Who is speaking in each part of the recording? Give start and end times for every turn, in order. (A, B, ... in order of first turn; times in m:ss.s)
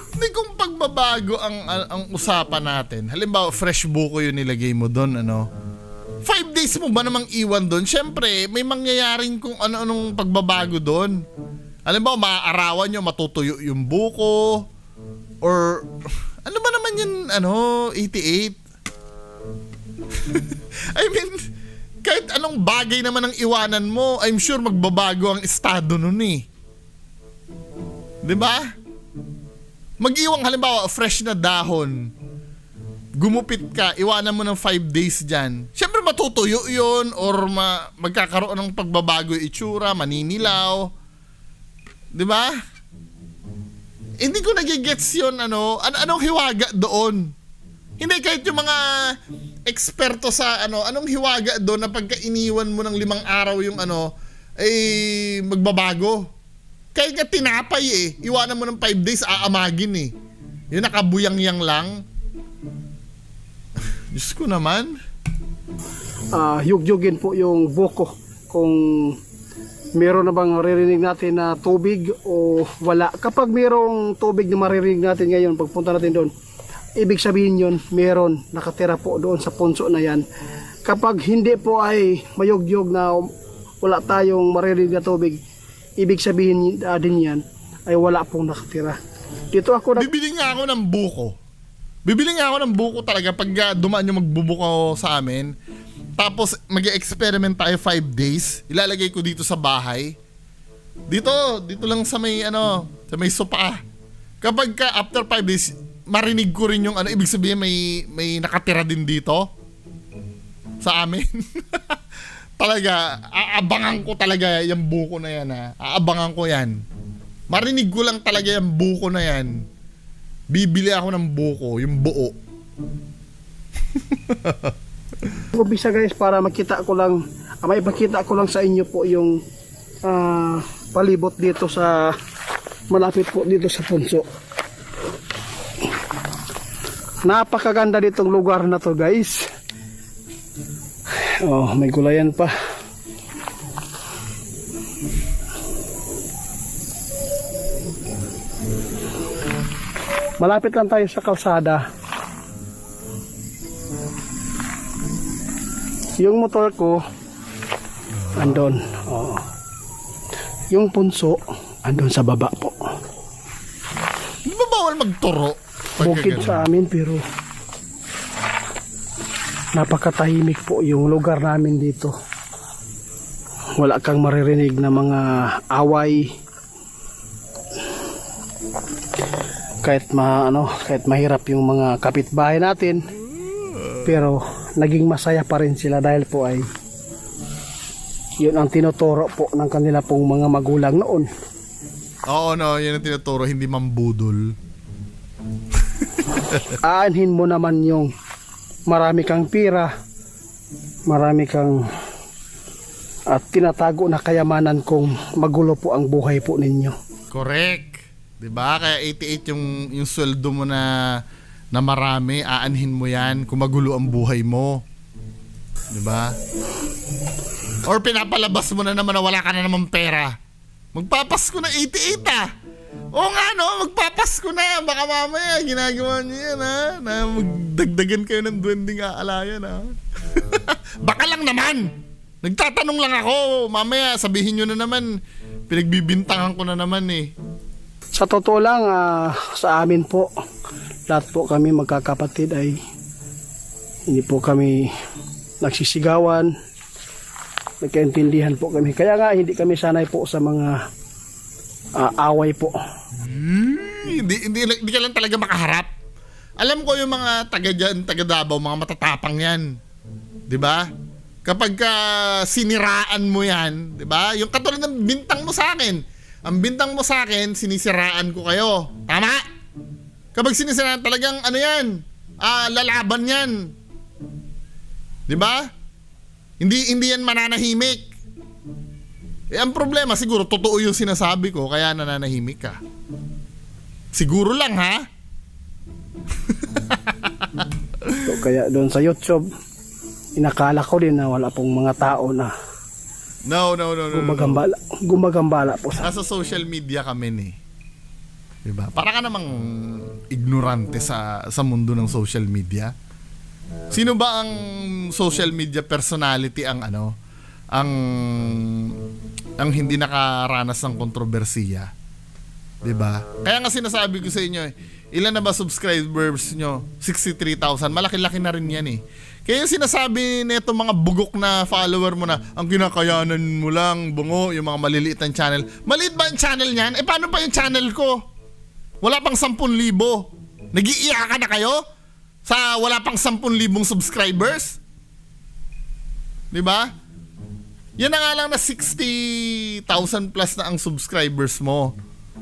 0:00.2-0:05.5 A
0:06.2-0:11.2 A
0:11.9-0:14.7 A
0:15.4-0:15.9 A
0:16.4-0:18.6 A
0:20.1-0:21.4 A
0:22.0-0:26.4 A
0:28.2-0:28.7 A
0:30.0-0:32.1 A
0:33.2-0:40.9 A
0:42.1-0:42.6 A
0:44.2-0:47.4 A
0:48.0-0:56.3 A
0:57.0-1:00.1 A
1:00.7-1:02.0 A
1:04.1-1:05.0 A
1:06.3-1:09.2 B
1:10.0-1:16.3 B
1:17.0-1:20.2 B
1:20.8-1:23.3 B
1:23.8-1:25.4 B
1:26.0-1:29.0 B
1:29.5-1:30.1 B
1:30.0-1:31.4 A
1:32.1-1:35.5 A
1:36.2-1:40.2 A
1:41.1-1:43.8 A
1:44.4-1:49.5 A
1:50.8-1:52.0 A
1:52.6-1:56.8 A
1:57.5-1:59.6 A
2:00.5-2:02.4 A
2:04.0-2:04.7 A
2:05.5-2:09.4 B
2:10.0-2:12.2 B
2:12.9-2:14.3 B
2:17.2-2:19.4 B
2:21.4-2:22.5 B
2:30.4-2:31.8 B
2:36.2-2:37.0 B
2:38.1-2:38.6 A
2:38.4-2:39.5 B
2:40.7-2:42.8 B
2:44.5-2:46.7 A
2:46.0-2:47.2 B
2:49.8-2:52.1 B
2:53.8-2:56.3 B
2:59.8-3:03.0 B
3:03.4-3:04.1 A
3:04.0-3:06.7 B
3:08.4-3:11.3 B
3:12.3-3:14.6 A
3:16.3-3:16.6 A
3:16.8-3:18.1 B
3:18.9-3:19.9 B
3:21.1-3:21.8 B
3:23.3-3:27.0 B
3:27.3-3:31.2 A
3:31.7-3:34.8 A
3:35.9-3:36.4 A
3:37.8-3:40.3 A
3:41.0-3:42.5 A
3:43.1-3:51.9 A
3:52.4-3:55.2 A
3:55.7-3:57.3 A
3:58.2-4:00.3 B
4:01.1-4:02.8 B
4:04.1-4:04.9 B
4:05.6-4:06.5 B
4:07.8-4:10.8 B
4:12.0-4:12.8 B
4:13.2-4:15.9 A
4:16.6-4:19.8 A
4:20.5-4:20.9 A
4:21.4-4:29.4 A
4:30.4-4:33.7 A
4:35.3-4:35.7 A
4:36.6-4:38.1 A
4:39.5-4:42.8 A
4:44.1-4:45.0 A
4:46.5-4:47.5 A
4:48.0-4:48.3 A
4:48.2-4:49.4 B
4:50.4-4:52.5 B
4:53.5-4:54.6 A
4:54.1-4:56.1 B
4:56.0-4:57.6 A
4:58.6-5:02.9 A
5:03.9-5:07.1 A
5:07.7-5:09.0 A
5:09.6-5:11.9 A
5:12.8-5:28.2 A
5:29.0-5:31.8 A
5:32.5-5:34.8 A
5:36.5-5:36.9 A
5:38.0-5:41.9 A